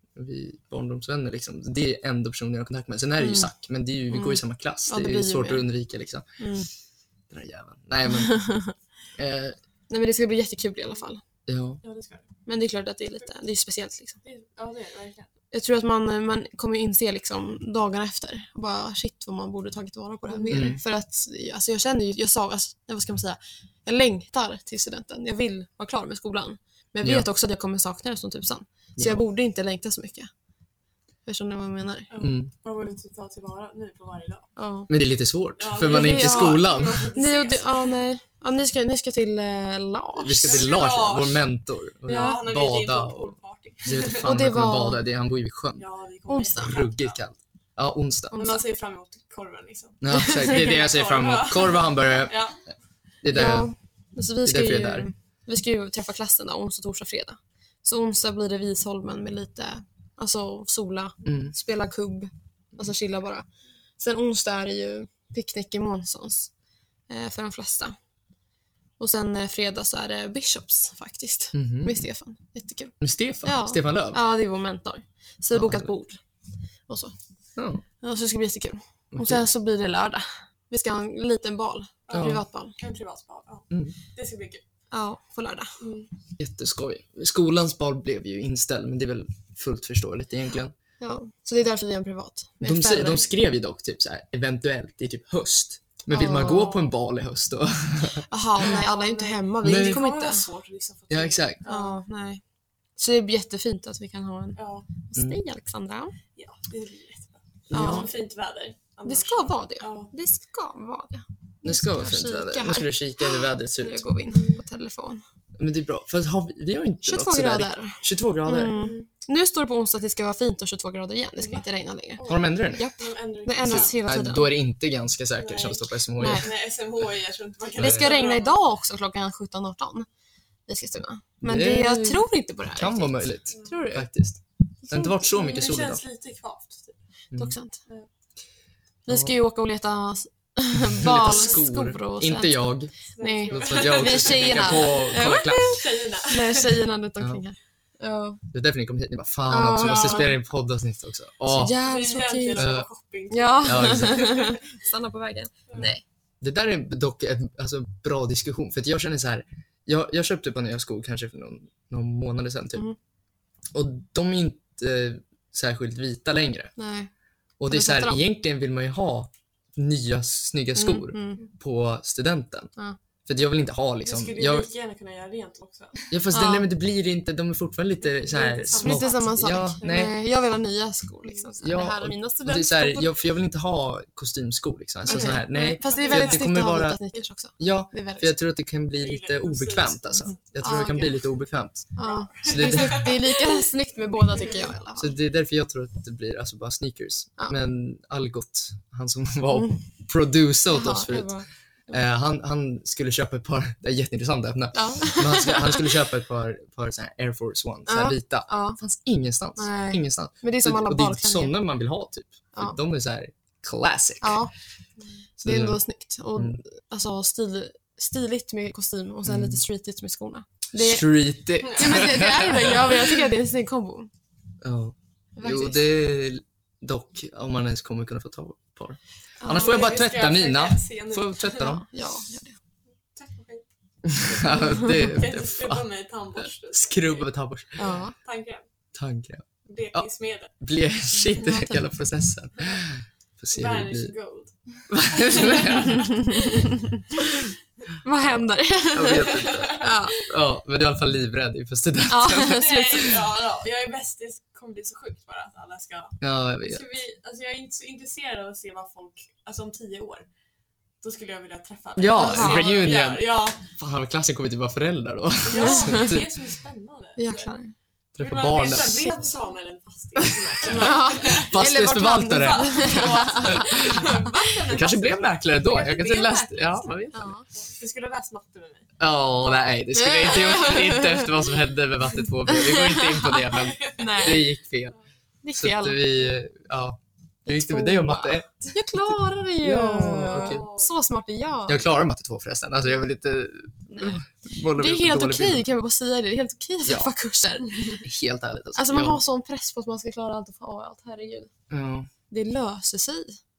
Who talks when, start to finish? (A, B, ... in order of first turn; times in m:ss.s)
0:00.2-0:06.4 A
0:03.2-0:03.5 B
0:04.1-0:05.7 B
0:06.4-0:06.7 B
0:07.3-0:08.5 A
0:08.1-0:08.7 B
0:09.2-0:09.6 A
0:09.9-0:11.2 B
0:11.5-0:11.8 A
0:11.8-0:12.3 C
0:12.5-0:14.2 B
0:14.2-0:15.3 C
0:15.5-0:30.3 B
0:20.3-0:20.6 C
0:20.5-0:20.8 A
0:29.0-0:29.2 A
0:31.3-0:32.1 B
0:32.1-0:34.5 C
0:32.2-0:32.5 A
0:34.6-0:34.9 B
0:34.9-0:37.1 A
0:35.6-0:37.8 C
0:35.9-0:40.7 B
0:40.2-0:45.8 A
0:40.4-0:41.4 C
0:42.0-0:44.4 C
0:42.1-0:42.4 B
0:44.2-0:45.0 B
0:45.8-0:47.2 C
0:46.3-0:46.8 B
0:46.6-0:48.4 A
0:48.3-0:48.6 B
0:48.4-0:52.6 C
0:50.0-0:52.4 A
0:50.1-0:50.6 B
0:53.2-0:53.7 A
0:53.3-1:03.4 B
0:54.4-0:55.1 A
1:01.2-1:01.6 A
1:04.0-1:06.5 B
1:07.1-1:08.0 B
1:09.0-1:16.2 B
1:11.5-1:12.0 A
1:13.0-1:14.2 A
1:15.5-1:15.9 A
1:16.9-1:17.1 B
1:17.6-1:17.8 A
1:18.0-1:22.8 B
1:19.1-1:19.5 A
1:22.1-1:24.6 C
1:22.1-1:22.4 A
1:23.7-1:24.0 A
1:24.9-1:25.7 B
1:25.8-1:26.1 C
1:26.4-1:30.7 A
1:31.0-1:33.3 B
1:32.6-1:38.3 A
1:36.1-1:36.8 B
1:36.4-1:36.9 C
1:38.3-1:40.5 B
1:38.6-1:42.0 C
1:39.6-1:40.0 A
1:41.1-1:41.6 A
1:41.6-1:42.4 B
1:43.0-1:46.1 B
1:44.6-1:44.9 C
1:45.2-1:45.4 A
1:46.4-1:50.1 C
1:47.7-1:48.1 A
1:47.7-1:48.1 B
1:49.1-1:55.2 B
1:51.6-1:54.0 A
1:54.3-1:54.6 C
1:55.6-1:58.8 A
1:57.1-2:04.5 B
1:58.7-1:59.1 C
2:02.2-2:04.0 C
2:02.3-2:02.9 A
2:03.6-2:06.5 A
2:05.4-2:08.6 C
2:06.2-2:06.5 B
2:07.8-2:08.1 A
2:07.8-2:10.1 B
2:10.7-2:14.1 B
2:11.4-2:12.2 A
2:12.7-2:16.0 A
2:14.9-2:17.0 C
2:17.4-2:17.8 B
2:19.1-2:22.6 B
2:19.1-2:19.3 A
2:20.9-2:22.9 A
2:23.2-2:26.8 C
2:23.2-2:28.4 B
2:23.5-2:25.8 A
2:28.5-2:31.8 A
2:29.5-2:30.3 B
2:29.8-2:30.4 C
2:31.5-2:32.8 B
2:31.8-2:34.6 C
2:32.6-2:32.9 A
2:33.3-2:36.0 B
2:33.6-2:34.5 A
2:36.4-2:42.9 A
2:43.7-2:46.7 A
2:46.8-2:47.1 B
2:47.6-2:52.7 A
2:47.7-2:48.2 B
2:50.8-2:51.4 B
2:53.3-2:54.7 A
2:54.0-2:56.0 C
2:56.1-3:00.2 A
2:56.3-2:56.7 B
2:58.0-3:00.1 C
2:58.8-3:03.1 B
3:01.6-3:07.0 A
3:05.1-3:06.4 C
3:05.1-3:08.3 B
3:07.6-3:11.9 A
3:09.0-3:10.4 C
3:10.6-3:11.2 B
3:12.0-3:15.1 B
3:12.0-3:13.6 C
3:12.4-3:13.1 A
3:14.3-3:14.6 C
3:15.0-3:34.4 A
3:19.5-3:19.8 B
3:20.7-3:21.5 B
3:24.7-3:25.9 B
3:27.9-3:28.8 B
3:29.6-3:31.5 B
3:34.2-3:34.5 B
3:35.4-3:41.1 B
3:35.4-3:35.8 A
3:39.2-3:39.6 A
3:40.7-3:43.1 A
3:41.6-3:44.1 B
3:41.7-3:42.4 C
3:44.6-3:51.8 A
3:45.4-3:45.8 B
3:49.4-3:49.8 B
3:49.5-3:51.8 C
3:51.6-3:52.6 B
3:53.1-3:53.6 C
3:54.0-3:57.9 A
3:54.2-3:58.6 C
3:57.8-3:58.2 B
3:59.0-4:04.1 A
3:59.7-4:00.5 C
4:01.4-4:01.8 B
4:03.5-4:06.9 C
4:04.9-4:06.1 A
4:06.1-4:06.4 B
4:08.0-4:10.2 B
4:08.9-4:13.1 A
4:09.1-4:10.1 C
4:12.1-4:13.2 B
4:12.4-4:20.3 C
4:16.2-4:16.9 A
4:21.0-4:23.6 C
4:22.0-4:26.3 A
4:22.2-4:22.7 B
4:25.4-4:27.5 C
4:25.5-4:26.2 B
4:27.2-4:27.7 B
4:28.2-4:29.1 A
4:28.2-4:31.5 C
4:30.6-4:34.4 B
4:31.4-4:34.1 A
4:32.2-4:38.9 C
4:34.7-4:37.2 A
4:37.1-4:37.5 B
4:39.0-4:45.0 A
4:39.9-4:41.4 B
4:42.5-4:44.4 B
4:43.5-4:44.4 C
4:45.4-4:46.1 B
4:45.5-4:50.6 A
4:47.5-4:51.8 B
4:50.3-4:50.9 C
4:51.7-4:55.7 A
4:54.7-4:58.0 B
4:56.8-4:57.1 A
4:58.0-4:59.2 A
4:58.8-5:01.5 B
5:01.7-5:02.1 A
5:02.3-5:03.4 B